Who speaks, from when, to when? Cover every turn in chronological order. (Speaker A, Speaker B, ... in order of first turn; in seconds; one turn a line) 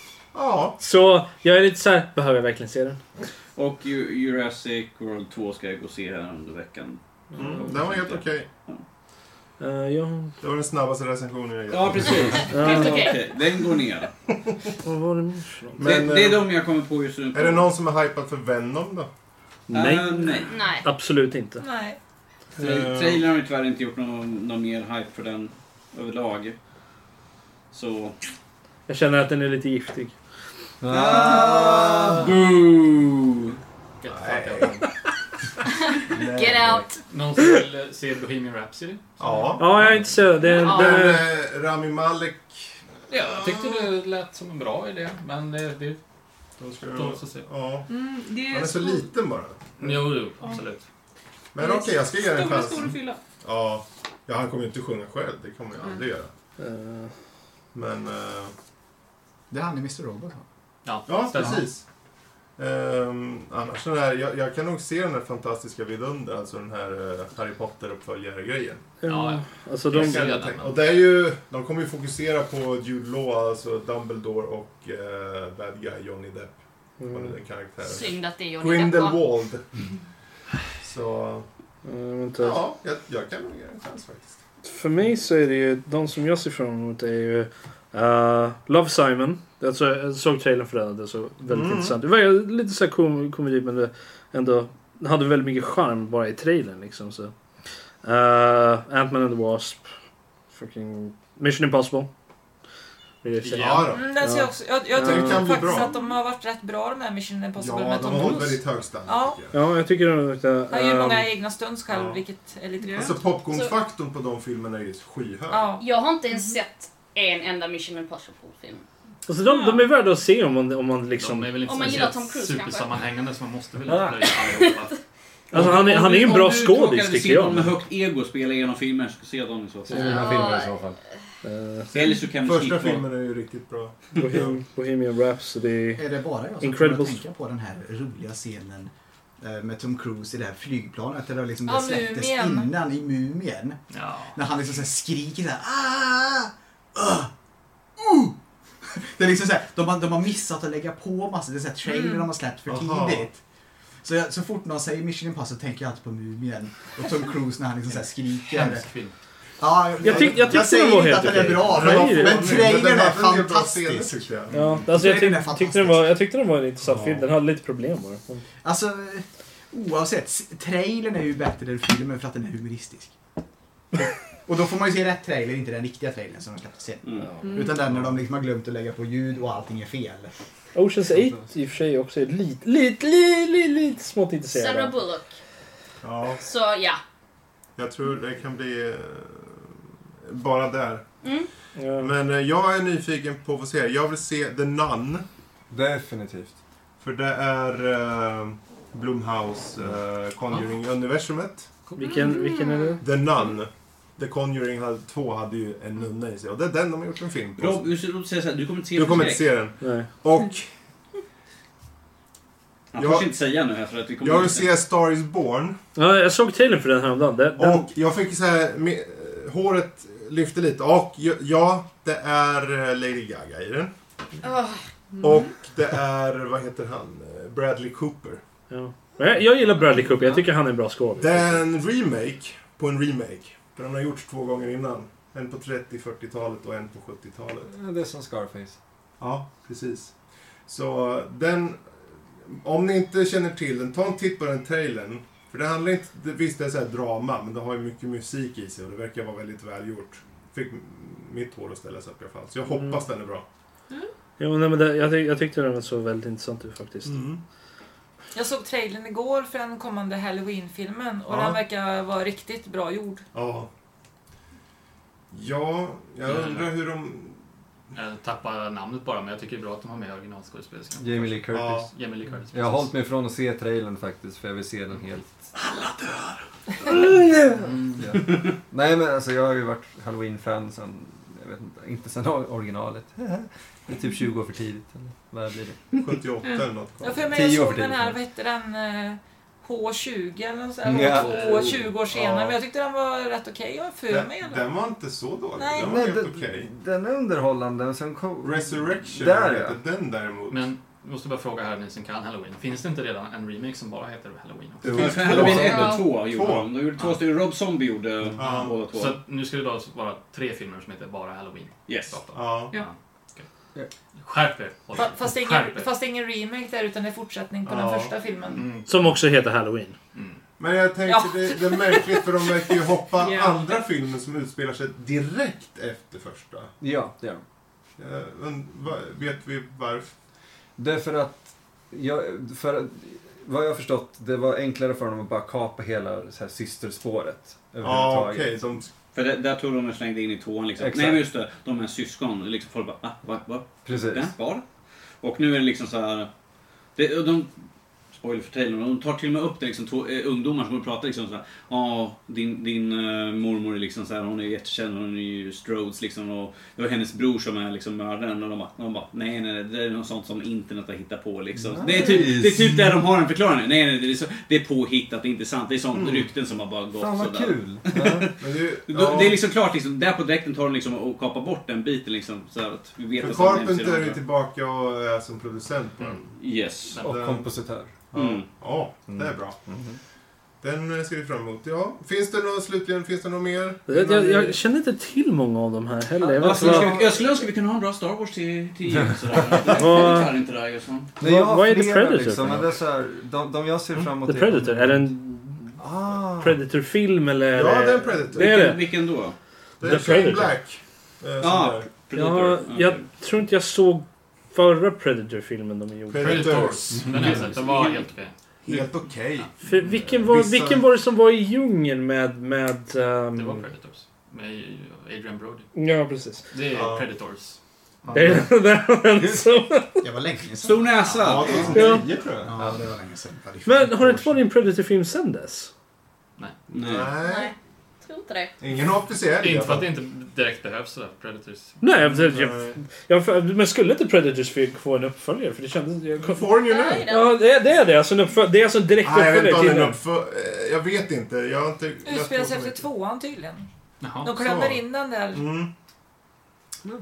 Speaker A: 0.3-0.8
Speaker B: 0.8-3.0
Speaker C: 3.5-8.8
Speaker A: 7.3-8.5
Speaker B: 9.6-10.3
Speaker A: 10.4-12.5
Speaker C: 11.7-14.1
Speaker B: 12.5-13.1
Speaker D: 12.6-13.2
Speaker B: 14.8-15.8
Speaker A: 15.8-16.6
Speaker C: 15.8-17.7
Speaker A: 17.3-19.1
Speaker B: 19.7-21.6
Speaker C: 19.7-20.5
Speaker D: 20.5-20.8
Speaker E: 21.6-22.0
Speaker A: 22.6-23.2
Speaker C: 22.6-26.6
Speaker C: 27.7-28.1
Speaker B: 28.9-30.1
Speaker F: 30.8-32.3
Speaker C: 30.9-33.6
Speaker G: 34.0-34.9
Speaker A: 34.1-34.9
Speaker D: 35.9-37.0
Speaker A: 36.1-36.9
Speaker G: 37.1-40.0
Speaker A: 39.2-39.9
Speaker B: 39.6-41.2
Speaker D: 40.5-41.1
Speaker A: 40.6-43.8
Speaker G: 43.1-46.0
Speaker A: 46.6-47.9
Speaker G: 46.9-47.5
Speaker H: 47.9-49.1
Speaker A: 48.4-50.2
Speaker G: 49.8-50.8
Speaker A: 51.5-56.3
Speaker H: 51.6-53.2
Speaker B: 56.6-57.1
Speaker A: 57.7-58.5
Speaker I: 59.5-60.4
Speaker G: 60.8-61.7
Speaker A: 61.1-61.8
Speaker A: 62.6-68.9
Speaker B: 69.0-70.3
Speaker G: 69.0-70.8
Speaker A: 69.9-79.7
Speaker B: 77.0-77.3
Speaker D: 77.8-79.2
Speaker A: 80.8-81.5
Speaker B: 81.8-82.6
Speaker A: 82.4-84.4
Speaker B: 84.6-97.3
Speaker A: 91.5-92.0
Speaker B: 98.0-99.8
Speaker B: 100.5-102.1
Speaker B: 103.2-105.4
Speaker G: 103.4-103.9
Speaker A: 103.6-104.1
Speaker E: 103.9-109.4
Speaker A: 104.9-105.9
Speaker A: 107.6-109.5
Speaker B: 109.5-111.3
Speaker E: 110.7-113.2
Speaker A: 111.9-112.2
Speaker H: 112.8-113.2
Speaker A: 113.0-115.7
Speaker D: 113.5-113.8
Speaker E: 115.5-115.8
Speaker D: 115.8-118.8
Speaker B: 119.3-121.8
Speaker H: 119.4-119.8
Speaker G: 121.2-125.0
Speaker D: 121.6-122.9
Speaker D: 124.4-124.8
Speaker B: 125.5-127.7
Speaker C: 125.5-130.3
Speaker D: 129.9-130.8
Speaker F: 129.9-131.0
Speaker B: 131.4-131.9
Speaker C: 131.9-133.1
Speaker A: 132.4-134.6
Speaker B: 134.2-136.1
Speaker I: 135.9-143.8
Speaker B: 136.6-137.2
Speaker E: 141.7-142.7
Speaker G: 143.9-144.3
Speaker I: 144.3-147.3
Speaker I: 148.0-148.4
Speaker I: 149.1-153.4
Speaker E: 152.0-152.2
Speaker A: 152.7-153.3
Speaker I: 154.0-158.9
Speaker G: 157.9-159.1
Speaker I: 159.6-166.2
Speaker B: 160.0-162.5
Speaker A: 161.7-164.6
Speaker B: 164.5-168.4
Speaker I: 168.6-173.2
Speaker I: 174.0-180.3
Speaker H: 177.4-177.8
Speaker B: 180.7-184.9
Speaker F: 181.1-181.4
Speaker D: 184.5-185.3
Speaker A: 186.0-186.4
Speaker D: 186.4-187.0
Speaker A: 187.8-189.7
Speaker A: 190.2-191.0
Speaker D: 191.2-191.5
Speaker B: 191.8-192.1
Speaker A: 192.0-195.2
Speaker F: 195.7-196.5
Speaker A: 197.0-201.7
Speaker G: 201.9-202.2
Speaker B: 202.0-203.0
Speaker A: 203.0-207.9
Speaker C: 207.6-209.5
Speaker A: 208.9-210.7
Speaker B: 209.8-210.1
Speaker C: 212.9-214.7
Speaker A: 213.0-213.3
Speaker A: 214.2-215.8
Speaker B: 215.9-217.9
Speaker A: 217.6-223.9
Speaker D: 224.4-224.8
Speaker H: 225.2-225.5
Speaker A: 225.2-228.4
Speaker B: 228.7-231.5
Speaker A: 231.2-237.7
Speaker F: 237.7-238.8
Speaker A: 239.2-240.1
Speaker A: 240.7-241.9
Speaker A: 242.5-253.4
Speaker B: 254.4-257.2
Speaker A: 257.0-257.4
Speaker E: 258.3-263.2
Speaker A: 261.3-261.6
Speaker A: 263.3-263.7
Speaker A: 265.3-267.4
Speaker G: 266.2-266.7
Speaker G: 267.9-272.9
Speaker F: 271.0-271.9
Speaker A: 271.5-271.9
Speaker F: 272.5-275.3
Speaker F: 276.9-285.8
Speaker G: 277.6-278.0
Speaker A: 285.9-287.4
Speaker E: 287.0-294.7
Speaker F: 287.3-288.2
Speaker F: 290.8-291.8
Speaker G: 291.1-291.9
Speaker A: 292.1-292.6
Speaker A: 294.1-296.7
Speaker E: 295.6-296.0
Speaker F: 295.8-299.8
Speaker A: 298.4-300.7
Speaker G: 300.5-305.1
Speaker F: 304.8-305.7
Speaker A: 304.8-306.8
Speaker C: 304.9-309.2
Speaker D: 305.6-306.1
Speaker A: 308.4-308.8
Speaker G: 308.4-313.5
Speaker C: 311.9-312.2
Speaker A: 312.3-312.8
Speaker G: 314.2-315.9
Speaker E: 314.9-318.7
Speaker A: 317.6-318.1
Speaker G: 318.5-319.1
Speaker B: 318.9-319.9
Speaker G: 320.1-320.4
Speaker A: 320.6-326.7
Speaker E: 321.1-322.0
Speaker H: 323.2-323.8
Speaker F: 326.8-327.4
Speaker A: 328.0-330.1
Speaker F: 330.8-338.6
Speaker A: 337.8-338.9
Speaker C: 339.1-344.6
Speaker F: 340.8-341.2
Speaker F: 343.8-344.3
Speaker C: 345.2-346.3
Speaker C: 346.9-347.5
Speaker C: 348.1-374.2
Speaker F: 361.7-362.9
Speaker A: 365.9-366.3
Speaker F: 367.0-368.3
Speaker A: 368.4-369.4
Speaker A: 373.2-376.4
Speaker C: 376.4-376.9
Speaker G: 376.9-377.2
Speaker A: 377.0-377.5
Speaker F: 377.0-377.9
Speaker A: 378.1-379.6
Speaker C: 378.1-378.4
Speaker F: 379.1-380.0
Speaker A: 380.6-384.6
Speaker B: 383.9-386.9
Speaker C: 386.2-391.1
Speaker F: 386.6-387.0
Speaker B: 389.8-390.3
Speaker F: 391.2-395.1
Speaker B: 391.2-392.7
Speaker B: 394.2-398.9
Speaker F: 395.8-396.6
Speaker A: 397.5-398.8
Speaker C: 398.3-399.4
Speaker A: 399.8-401.9
Speaker B: 399.8-400.5
Speaker C: 401.4-403.1
Speaker B: 402.1-406.8
Speaker A: 406.1-407.9
Speaker G: 406.2-408.3
Speaker F: 406.9-407.5
Speaker A: 408.6-410.9
Speaker B: 409.6-413.7
Speaker G: 413.3-415.7
Speaker B: 415.7-416.4
Speaker G: 416.5-417.6
Speaker A: 416.7-417.1
Speaker B: 418.1-420.1
Speaker I: 420.0-424.4
Speaker C: 420.6-421.8
Speaker A: 421.1-422.5
Speaker B: 421.7-422.1
Speaker B: 423.6-425.7
Speaker C: 426.7-427.1
Speaker A: 426.7-427.5
Speaker D: 427.1-428.5
Speaker A: 428.6-429.9
Speaker G: 429.4-432.4
Speaker B: 431.8-440.0
Speaker A: 432.3-432.7
Speaker A: 436.2-437.1
Speaker D: 436.6-437.4
Speaker A: 439.0-442.9
Speaker E: 442.1-443.7
Speaker G: 444.0-444.3
Speaker E: 444.2-445.5
Speaker A: 444.3-445.7